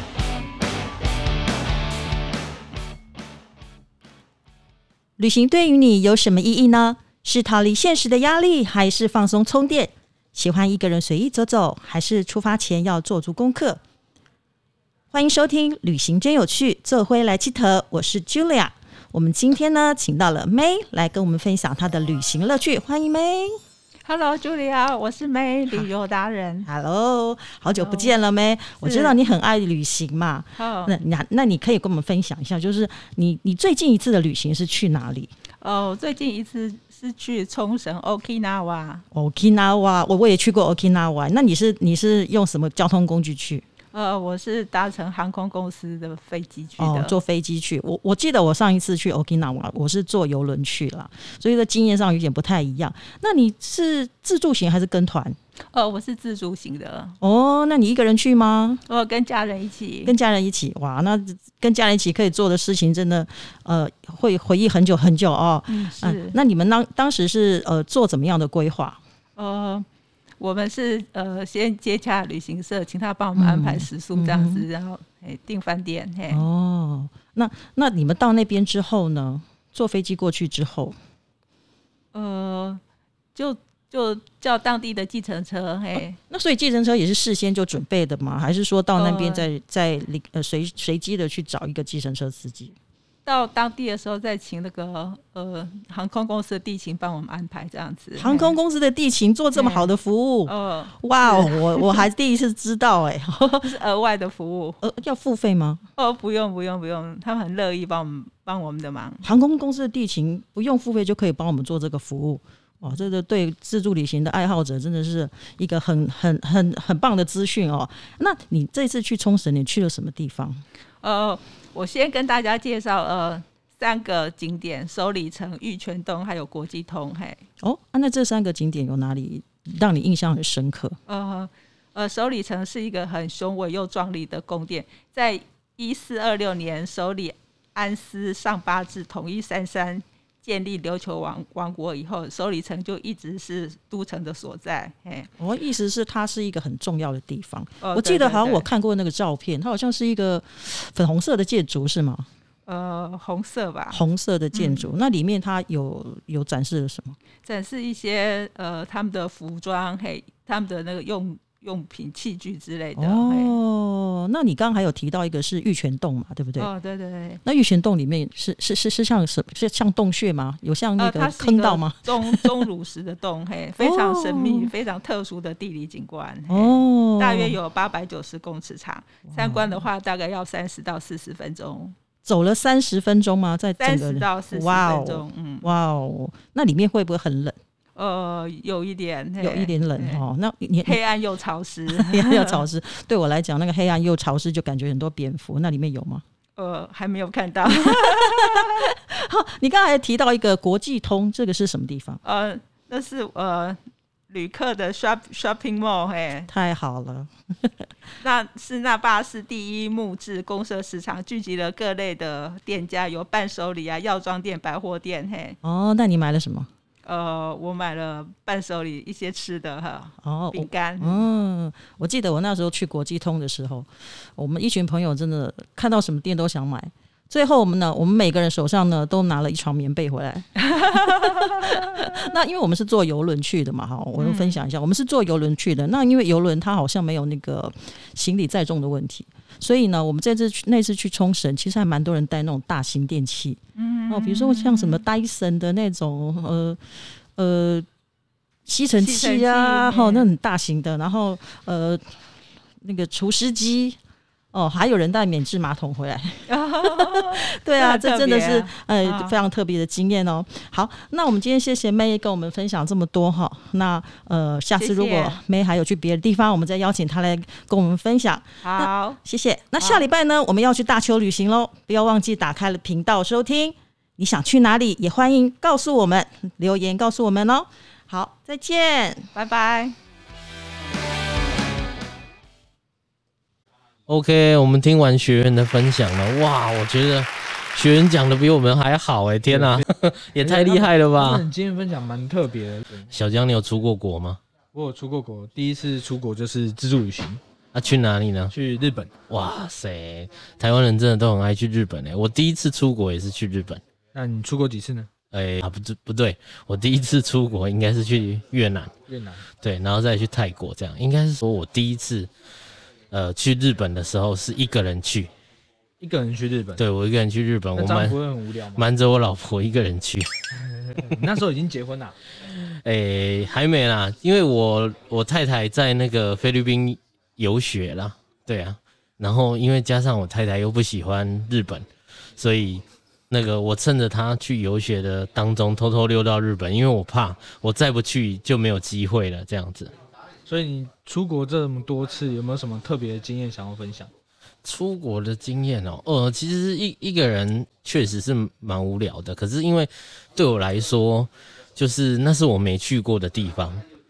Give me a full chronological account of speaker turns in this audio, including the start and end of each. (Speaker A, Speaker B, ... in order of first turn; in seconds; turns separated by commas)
Speaker A: 5.2-13.8, Speaker A: 15.1-23.6, Speaker B: 24.1-26.7, Speaker A: 26.6-35.3, Speaker B: 27.8-28.1, Speaker B: 28.8-29.2, Speaker B: 30.6-31.0, Speaker B: 35.6-39.0, Speaker A: 39.1-43.6, Speaker B: 43.9-47.2, Speaker A: 46.8-55.4, Speaker B: 55.7-57.2, Speaker A: 57.2-58.8, Speaker B: 58.9-60.1, Speaker A: 60.0-69.0, Speaker B: 65.7-66.4, Speaker B: 69.4-69.9, Speaker B: 70.4-76.4, Speaker A: 73.4-74.7, Speaker A: 76.3-81.0, Speaker B: 82.1-82.8, Speaker B: 83.3-86.2, Speaker A: 86.3-92.7, Speaker B: 89.0-89.5, Speaker B: 93.2-98.6, Speaker A: 98.2-103.8, Speaker B: 99.5-99.9, Speaker B: 100.5-102.1, Speaker B: 103.6-104.8, Speaker A: 104.8-105.8, Speaker B: 106.0-109.3, Speaker A: 109.2-120.6, Speaker B: 121.0-127.4, Speaker A: 127.6-131.0, Speaker B: 131.1-145.3, Speaker A: 145.4-152.3, Speaker B: 147.8-148.7, Speaker B: 152.7-154.0, Speaker A: 153.9-157.2, Speaker B: 154.5-154.9, Speaker B: 157.4-163.6, Speaker A: 162.9-166.7, Speaker B: 166.6-167.4, Speaker A: 167.4-172.7, Speaker B: 171.0-181.9, Speaker A: 173.8-174.7, Speaker A: 176.5-177.6, Speaker A: 179.3-179.8, Speaker A: 182.2-187.6, Speaker B: 183.8-185.7, Speaker B: 187.9-190.2, Speaker A: 189.4-191.0, Speaker B: 190.8-192.7, Speaker A: 191.9-196.2, Speaker B: 196.6-198.9, Speaker A: 197.7-202.2, Speaker B: 202.2-206.5, Speaker A: 206.5-207.9, Speaker B: 208.2-215.6, Speaker A: 215.6-216.7, Speaker B: 217.1-221.2, Speaker A: 220.2-246.8, Speaker B: 230.7-232.1, Speaker B: 234.2-234.6, Speaker B: 243.8-245.0, Speaker A: 247.4-247.9, Speaker A: 248.7-252.1, Speaker B: 249.0-250.3, Speaker A: 252.8-254.0, Speaker A: 254.5-279.3, Speaker B: 256.5-259.4, Speaker B: 264.8-265.4, Speaker B: 268.6-269.2, Speaker B: 269.8-270.1, Speaker B: 279.3-280.0, Speaker C: 284.1-291.5, Speaker D: 289.5-289.8, Speaker D: 290.4-293.1, Speaker C: 293.1-294.4, Speaker D: 294.7-297.4, Speaker C: 297.7-298.5, Speaker D: 298.5-299.1, Speaker C: 299.3-303.8, Speaker D: 304.1-305.1, Speaker C: 305.3-308.9, Speaker D: 309.1-309.5, Speaker C: 309.6-312.3, Speaker C: 313.1-315.3, Speaker D: 316.0-316.8, Speaker C: 316.8-318.2, Speaker D: 317.8-318.9, Speaker C: 318.8-320.3, Speaker D: 321.0-322.2, Speaker C: 322.5-331.9, Speaker C: 332.4-339.9, Speaker D: 340.5-344.1, Speaker C: 344.6-353.8